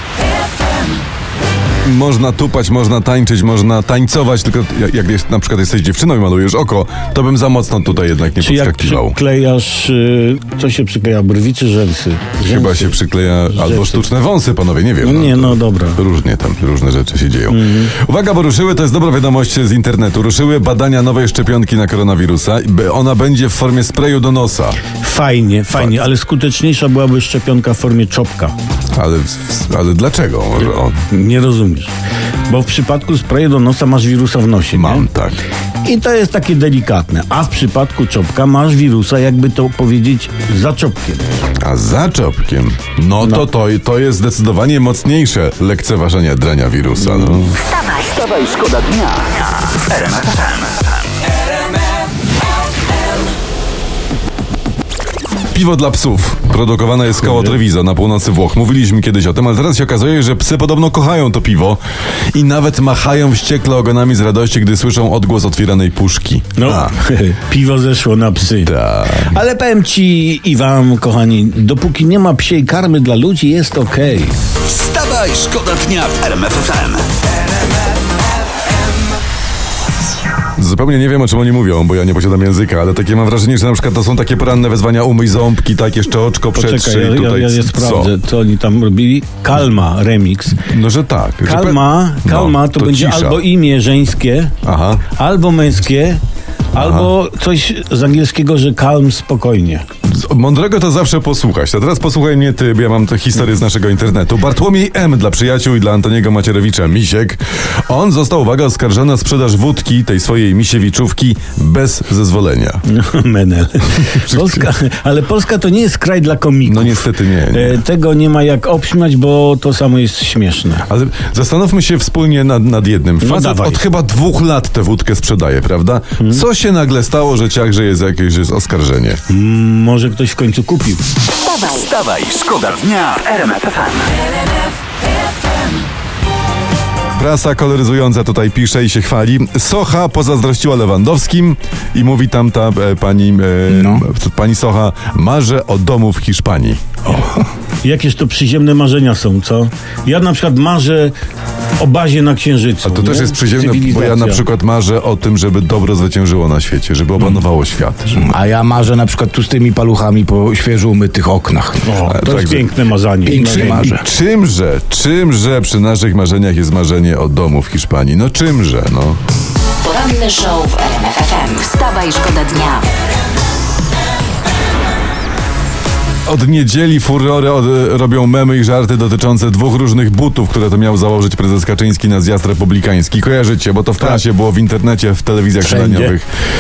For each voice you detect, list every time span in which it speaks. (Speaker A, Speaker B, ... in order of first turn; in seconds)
Speaker A: 1.8-9.2, 12.4-24.8, 28.9-31.0, 34.7-35.4, 41.6-47.6, 55.5-61.8, 62.3-67.0, 68.7-69.3, 80.6-88.1, 90.7-93.4, 94.6-95.0, 96.8-97.1, 100.1-112.8, 114.0-114.7, 116.7-117.8, 120.9-129.2, 137.2-146.8, 152.8-158.2, 162.1-162.7, 163.3-169.2, 176.3-186.3
Speaker B: 8.4-13.0, 13.5-14.1, 15.0-16.0, 17.5-17.9, 25.0-28.5, 31.1-31.9, 32.5-35.1, 35.8-41.3, 43.2-43.5, 47.0-47.5, 57.2-57.6, 66.6-74.3, 86.5-90.6, 91.4-94.5, 95.1-96.2, 96.7-99.8, 112.9-120.9, 123.2-123.8, 126.2-126.5, 129.3-131.0, 147.8-151.1, 151.8-154.4, 161.8-163.9
Speaker C: 47.7-51.0, 74.6-77.0, 131.5-134.2
Speaker D: 143.7-144.1, 158.1-162.1, 163.2-164.1, 185.6-186.1
Speaker E: 169.8-172.9